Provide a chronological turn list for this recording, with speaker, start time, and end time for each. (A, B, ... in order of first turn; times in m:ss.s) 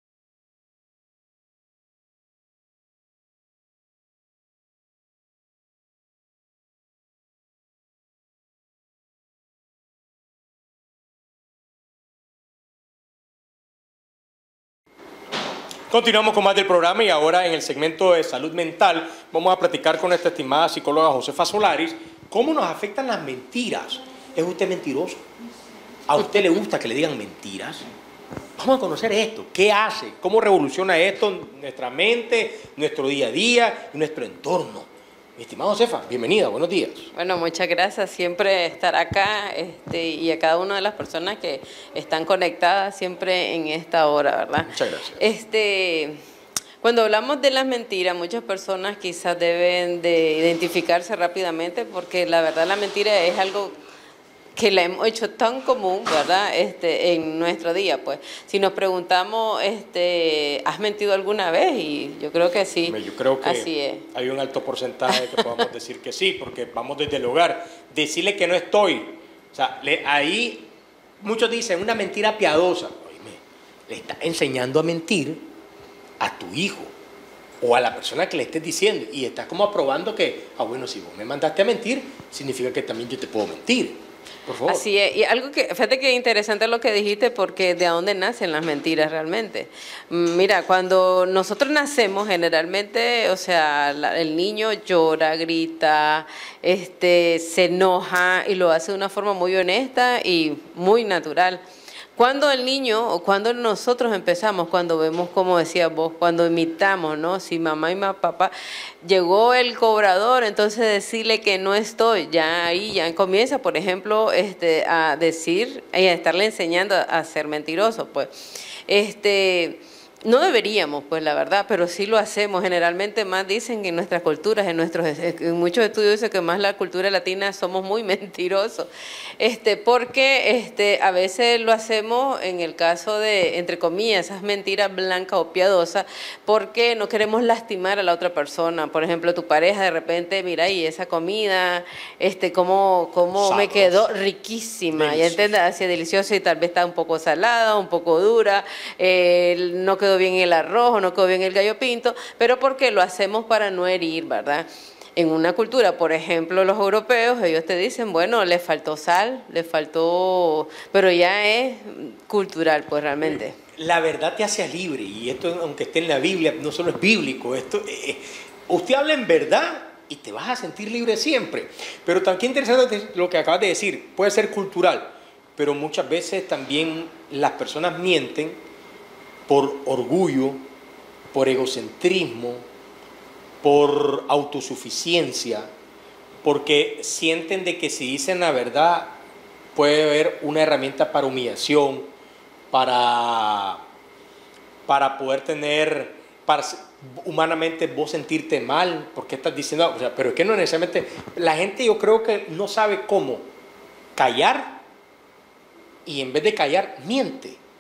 0:15.9-0:25.2 A
0:26.1-0:27.9 A
0:28.6-0:37.1 A
0:37.1-0:46.2 B
0:44.7-0:45.2 A
0:46.8-0:53.7 B
0:54.6-1:04.1 B
1:02.8-1:10.7 A
1:05.1-1:05.6 B
1:11.2-1:15.4 A
1:16.2-1:16.9 A
1:17.6-1:24.8 A
1:24.7-1:41.6 B
1:42.2-1:48.5 B
1:49.0-1:58.3 B
1:58.9-2:43.6 B
2:23.4-2:24.1 A
2:24.9-2:25.5 A
2:43.3-2:58.6 A
2:59.5-3:00.6 A
3:01.3-3:02.6 A
3:03.6-3:05.7 A
3:06.4-3:09.2 A
3:09.8-3:12.1 A
3:12.7-3:13.8 A
3:14.9-3:23.4 A
3:24.2-3:24.8 A
3:26.1-3:27.6 A